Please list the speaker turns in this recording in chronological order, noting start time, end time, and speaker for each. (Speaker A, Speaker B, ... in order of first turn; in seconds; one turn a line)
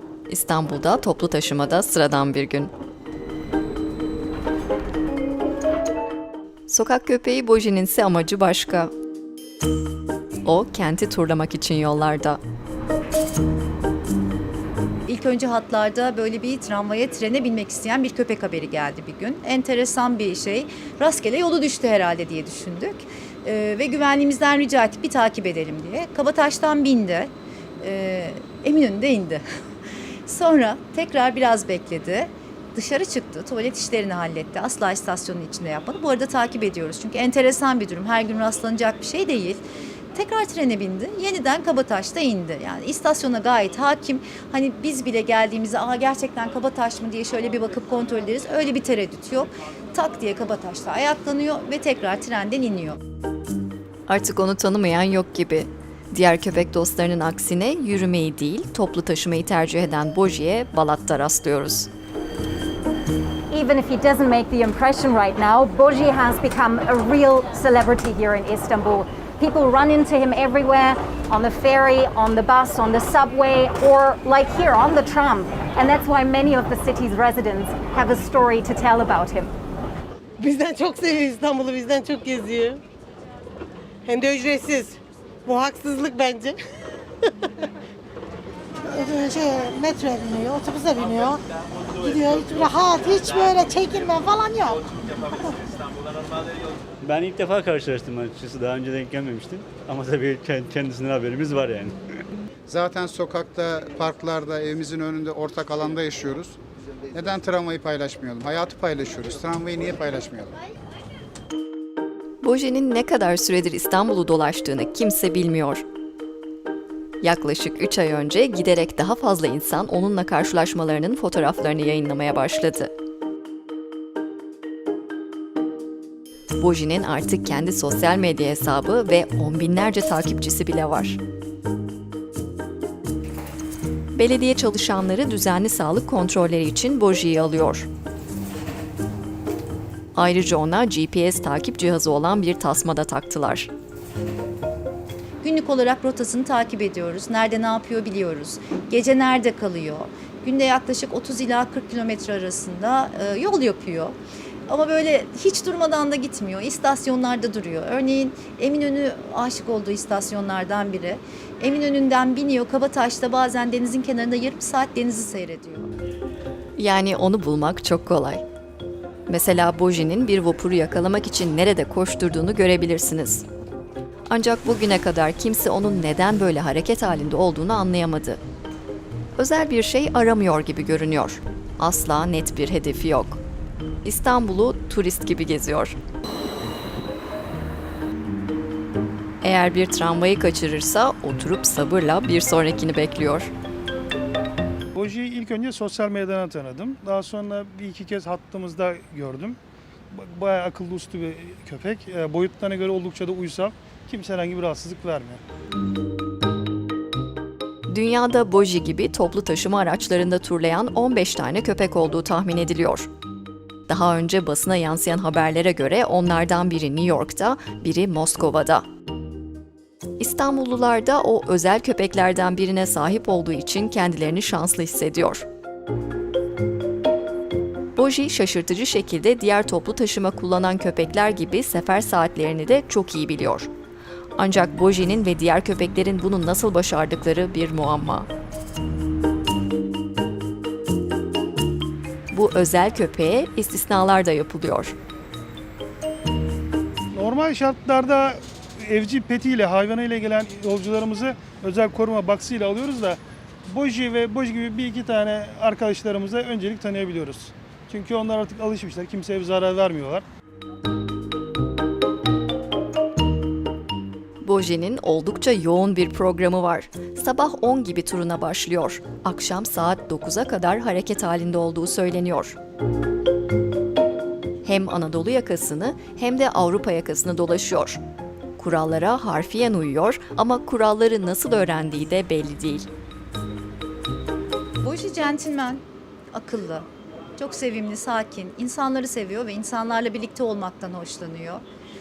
Speaker A: 0.3-2.7
Speaker A: 6.7-8.9
Speaker A: 10.4-12.4
Speaker B: 15.1-27.3
Speaker B: 27.8-29.4
Speaker B: 30.3-39.6
Speaker B: 40.1-53.0
Speaker A: 54.1-61.9
Speaker C: 63.5-79.5
Speaker D: 80.4-82.8
Speaker D: 84.0-85.0
Speaker D: 85.5-86.5
Speaker E: 88.9-91.4
Speaker E: 92.0-94.8
Speaker F: 97.0-101.9
Speaker G: 102.7-106.6
Speaker G: 107.1-110.5
Speaker A: 112.4-115.8
Speaker A: 117.2-122.9
Speaker A: 126.6-131.2
Speaker A: 134.1-137.9
Speaker A: 140.1-143.7
Speaker B: 145.4-154.1
Speaker B: 154.7-165.9
Speaker A: 166.8-168.4
Speaker A: 169.3-173.4
Speaker A: 174.3-178.4
Speaker A: 179.4-183.4
Speaker A: 184.0-186.0
Speaker A: 189.4-193.5
Speaker H: 194.9-199.6
Speaker H: 200.1-205.4
Speaker A: 207.9-213.1
Speaker A: 213.9-218.8
Speaker A: 220.2-225.4
Speaker A: 227.9-233.7
Speaker A: 234.4-238.3
Speaker A: 242.3-244.9
Speaker H: 247.1-260.2
Speaker A: 264.4-272.6
Speaker A: 274.6-278.0
Speaker A: 278.6-282.9
Speaker B: 284.8-286.9
Speaker B: 287.4-291.6